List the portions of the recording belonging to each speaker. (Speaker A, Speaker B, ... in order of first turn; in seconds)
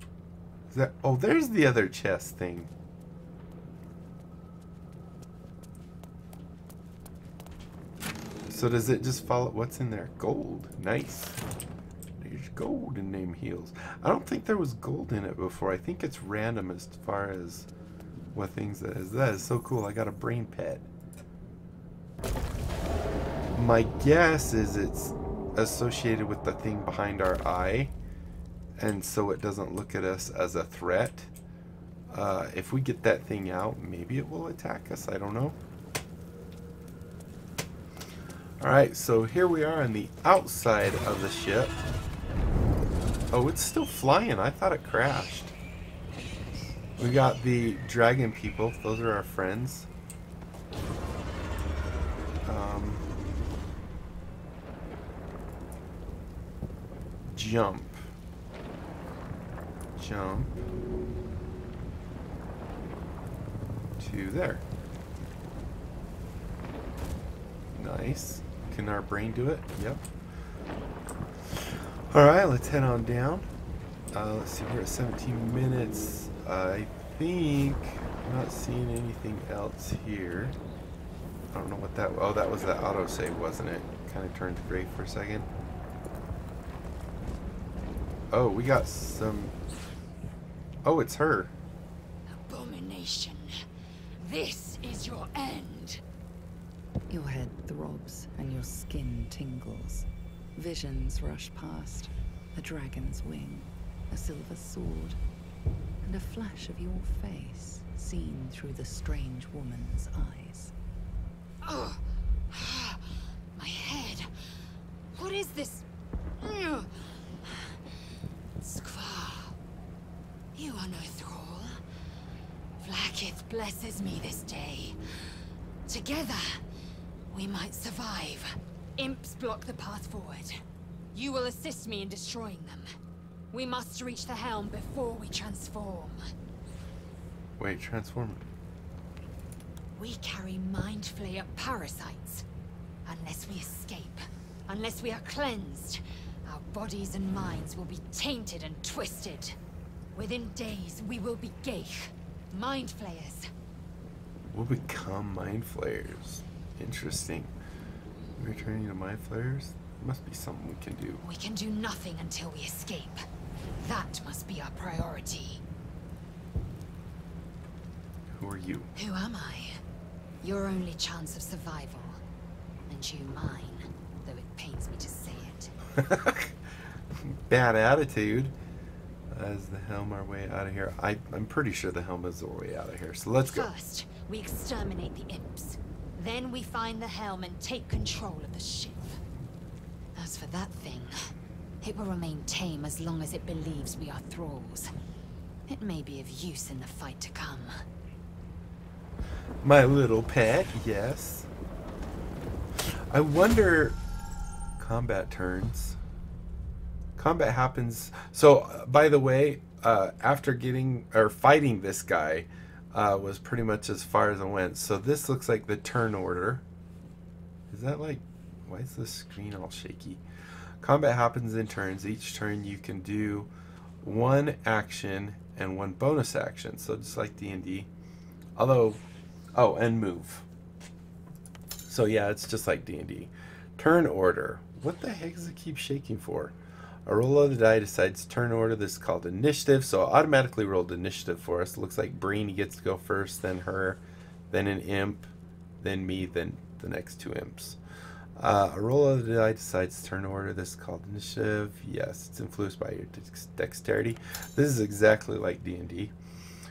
Speaker A: 0.7-2.7, 8.5-11.4, 12.2-17.7, 18.3-20.9, 23.5-27.9, 28.8-31.3, 32.1-35.6, 38.6-41.8, 43.3-45.5, 47.0-49.9, 52.5-53.1, 57.3-58.0, 60.0-60.6, 64.0-64.7, 67.7-70.1, 71.5-73.5, 74.1-80.6, 81.5-85.5, 88.3-89.5, 90.8-91.5, 137.6-138.4, 154.5-157.5, 158.4-161.2, 168.3-168.9, 175.9-176.6, 177.2-178.5, 179.3-183.7, 199.6-201.5, 202.8-204.0, 204.8-206.0, 207.2-216.6, 217.7-220.2, 220.8-223.5, 224.0-227.9, 228.6-229.0, 229.6-230.5, 231.9-236.5, 237.1-247.8, 248.4-256.1
Speaker B: 92.3-93.5, 94.2-96.0, 111.6-114.3, 115.2-115.8, 116.4-116.9, 117.4-117.8, 118.6-119.5, 120.5-121.8, 122.8-125.4, 125.9-126.6, 127.3-130.5, 131.1-132.9, 133.5-136.2, 140.0-142.4, 143.1-149.6, 150.1-153.5, 161.2-163.2, 163.8-165.6, 169.0-169.8, 170.4-172.2, 172.9-175.7, 183.5-189.2, 190.2-191.1, 191.8-194.9, 195.7-197.7
Speaker C: 97.1-105.2, 106.0-110.7